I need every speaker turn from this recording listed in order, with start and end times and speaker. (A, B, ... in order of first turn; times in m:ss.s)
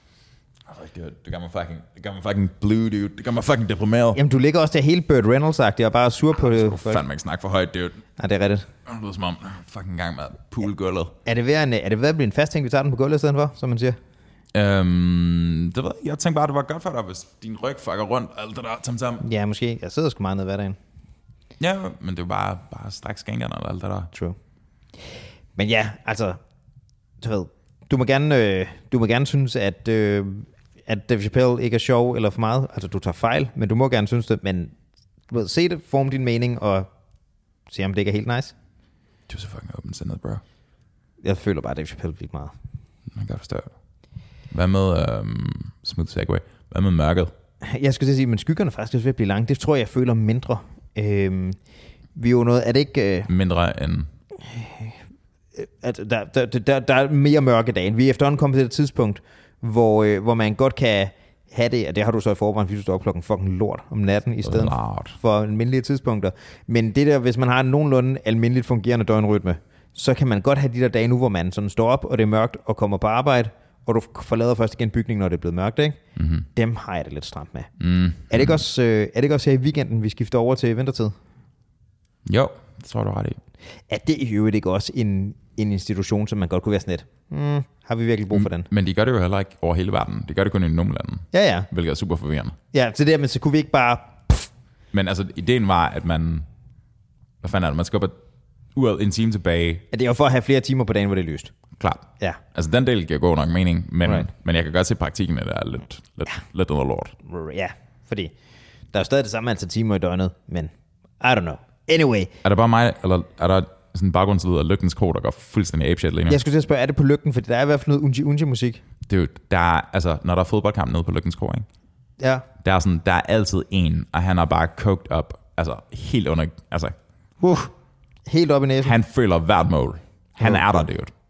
0:00.6-0:04.2 A
0:04.1-0:07.0 B
0:06.4-0:08.0 A
0:08.2-0:08.7 B
0:08.8-0:11.1 A
0:11.2-0:14.0 B
0:14.5-0:19.2 A
0:19.2-0:20.8 B
0:21.6-0:24.1 A
0:25.6-0:26.4 B
0:27.2-0:34.7 B
0:35.3-0:36.9 B
0:37.7-0:38.5 B
0:39.3-0:40.4 A
0:41.2-0:42.5 B
0:43.1-0:43.7 A
0:44.5-0:47.3 A
0:47.6-0:51.6 B
0:52.2-0:53.3 B
0:53.3-0:54.1 A
0:54.4-0:55.0 B
0:55.6-1:16.0 B
1:04.4-1:05.2 A
1:16.2-1:16.4 A
1:16.5-1:17.7 B
1:17.8-1:18.6 A
1:18.3-1:21.1 B
1:22.2-1:23.4 A
1:23.9-1:28.7 B
1:28.3-1:32.6 A
1:31.3-1:31.7 B
1:32.7-1:34.5 B
1:34.9-1:36.5 A
1:37.4-1:38.2 A
1:38.7-1:39.8 A
1:39.9-1:41.5 B
1:41.8-1:47.1 A
1:47.2-1:48.3 B
1:48.9-1:52.3 B
1:52.4-1:56.4 A
1:56.3-1:58.8 B
1:59.0-2:01.6 A
2:02.2-2:02.4 B
2:02.6-2:07.0 A
2:07.4-2:07.7 B
2:08.3-2:09.0 B
2:08.8-2:11.1 A
2:10.4-2:10.9 B